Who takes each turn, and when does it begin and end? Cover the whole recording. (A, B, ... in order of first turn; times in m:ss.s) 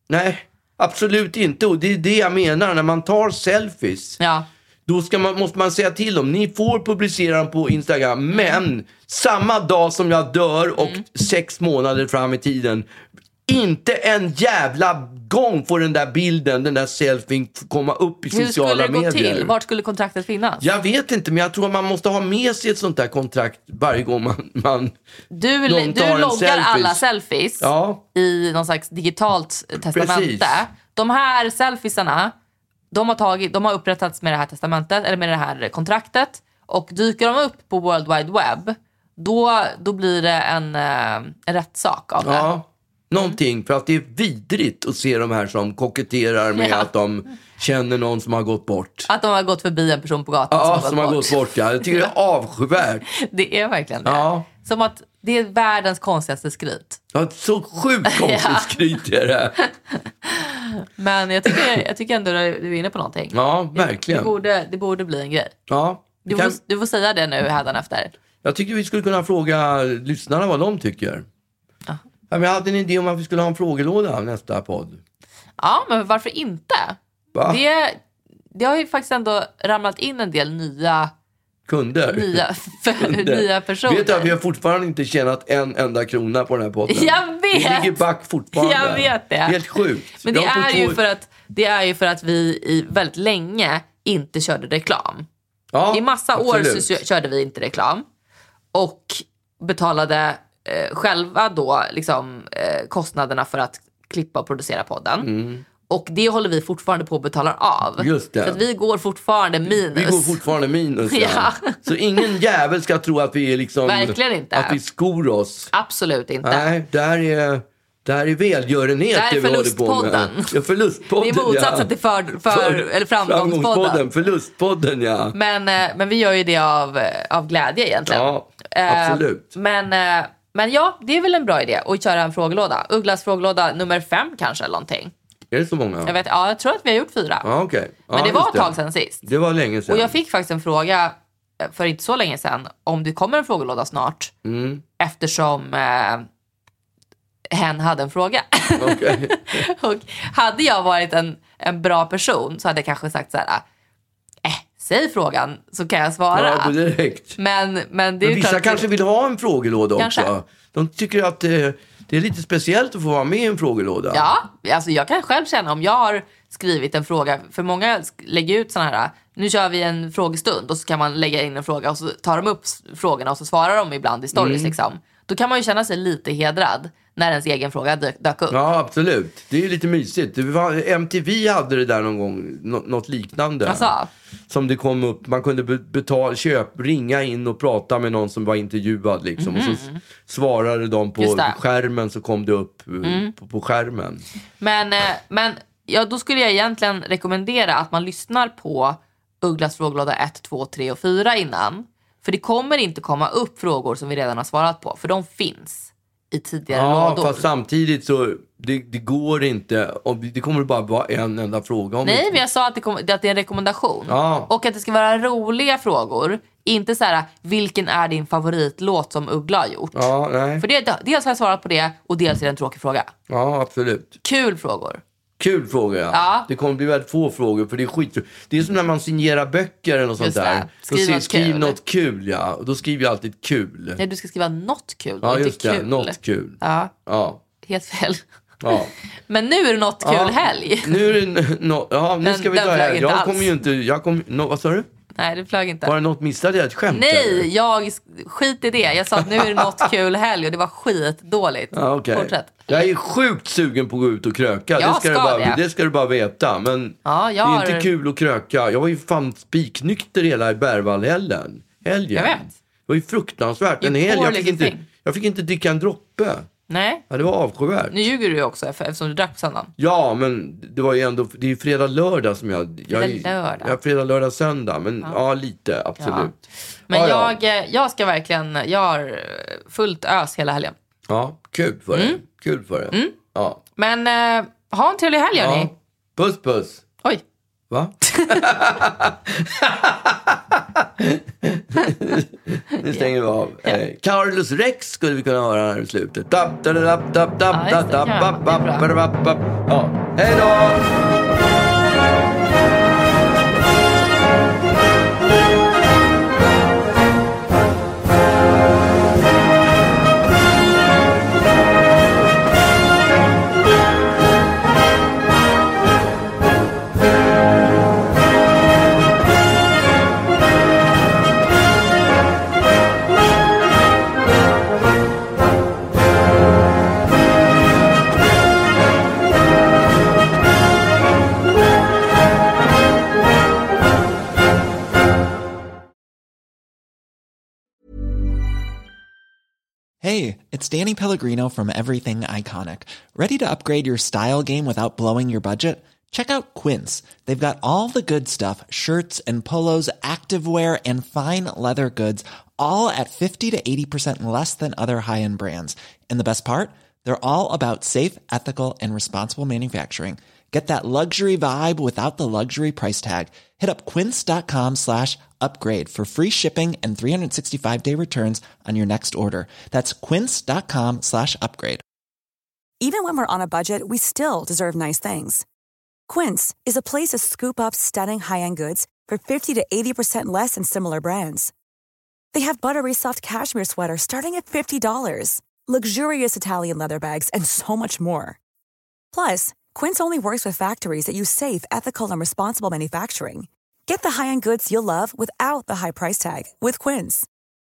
0:00.1-0:04.2 A
0:04.2-0:04.5 B
0:04.9-0:12.9 A
0:10.8-0:11.0 B
0:13.5-0:19.5 A
0:18.3-0:20.7 B
0:20.6-0:24.9 A
0:25.3-0:32.3 B
0:25.7-0:27.0 A
0:27.6-0:28.0 A
0:29.9-0:30.6 A
0:32.9-0:42.5 B
0:42.2-0:49.1 A
0:46.6-0:46.9 B
0:49.1-0:52.1 B
0:50.5-0:53.1 A
0:53.1-0:57.0 B
0:54.0-0:54.5 A
0:57.1-0:59.6 A
0:58.1-0:58.8 B
0:59.6-1:05.6 B
1:03.3-1:04.3 A
1:05.7-1:06.6 A
1:06.2-1:08.1 B
1:08.4-1:11.3 A
1:12.3-1:15.0 A
1:15.6-1:18.0 B
1:17.3-1:17.6 A
1:18.5-1:21.1 B
1:21.7-1:22.4 A
1:22.1-1:24.4 B
1:23.0-1:31.0 A
1:26.9-1:28.0 B
1:28.5-1:35.3 B
1:35.7-1:36.9 A
1:35.9-1:38.0 B
1:38.7-1:45.3 B
1:45.2-1:45.6 A
1:45.9-1:50.4 B
1:48.0-1:48.6 A
1:49.7-1:55.7 A
1:51.1-1:51.8 B
1:53.9-1:54.8 B
1:55.7-1:56.7 B
1:56.4-2:01.9 A
1:59.1-2:00.6 B
2:01.2-2:04.0 B
2:02.5-2:05.4 A
2:05.3-2:15.1 B
2:08.1-2:09.5 A
2:15.5-2:16.2 A
2:16.1-2:17.5 B
2:17.4-2:20.2 A
2:18.1-2:19.3 B
2:19.9-2:24.3 B
2:24.4-2:24.8 A
2:25.0-2:26.3 B
2:27.5-2:33.6 B
2:28.8-2:29.7 A
2:34.4-2:36.7 B
2:36.3-2:37.4 A
2:37.4-2:38.9 B
2:38.2-2:44.3 A
2:40.0-2:40.3 B
2:44.1-2:58.6 B
2:54.3-2:54.7 A
2:58.5-3:03.9 A
3:03.7-3:04.1 B
3:04.5-3:14.2 A
3:09.4-3:10.0 B
3:11.2-3:11.6 B
3:13.0-3:13.3 B
3:14.6-3:27.4 B
3:26.7-3:32.4 A
3:32.0-3:40.1 B
3:34.1-3:34.5 A
3:40.0-3:40.6 A
3:40.6-3:43.1 B
3:43.3-3:44.2 A
3:44.2-3:45.0 B
3:45.4-3:54.0 A
3:46.1-3:46.5 B
3:50.2-3:51.8 B
3:54.0-3:56.9 B
3:55.2-3:57.4 A
3:57.6-4:01.2 B
3:58.6-3:58.9 A
4:00.0-4:04.9 A
4:02.2-4:03.5 B
4:05.2-4:05.9 B
4:05.8-4:07.5 A
4:06.9-4:12.9 B
4:09.4-4:09.8 A
4:11.7-4:26.5 A
4:14.8-4:15.6 B
4:17.0-4:17.9 B
4:22.2-4:22.5 B
4:23.8-4:24.9 B
4:26.7-4:27.1 B
4:27.1-4:28.0 A
4:27.9-4:29.7 B
4:29.8-4:36.4 A
4:32.9-4:33.8 B
4:36.0-4:36.4 B
4:36.9-4:40.8 B
4:36.9-4:37.4 A
4:41.1-4:43.6 A
4:41.9-4:42.2 B
4:43.8-4:45.7 B
4:45.4-4:46.8 A
4:47.7-5:00.8 A
4:48.1-4:48.5 B
4:52.9-4:53.1 B
4:57.5-4:58.9 B
5:40.0-6:11.8 C
6:12.8-6:15.4 D
6:16.1-6:21.5 D
6:22.3-6:28.4 D
6:29.1-6:37.3 D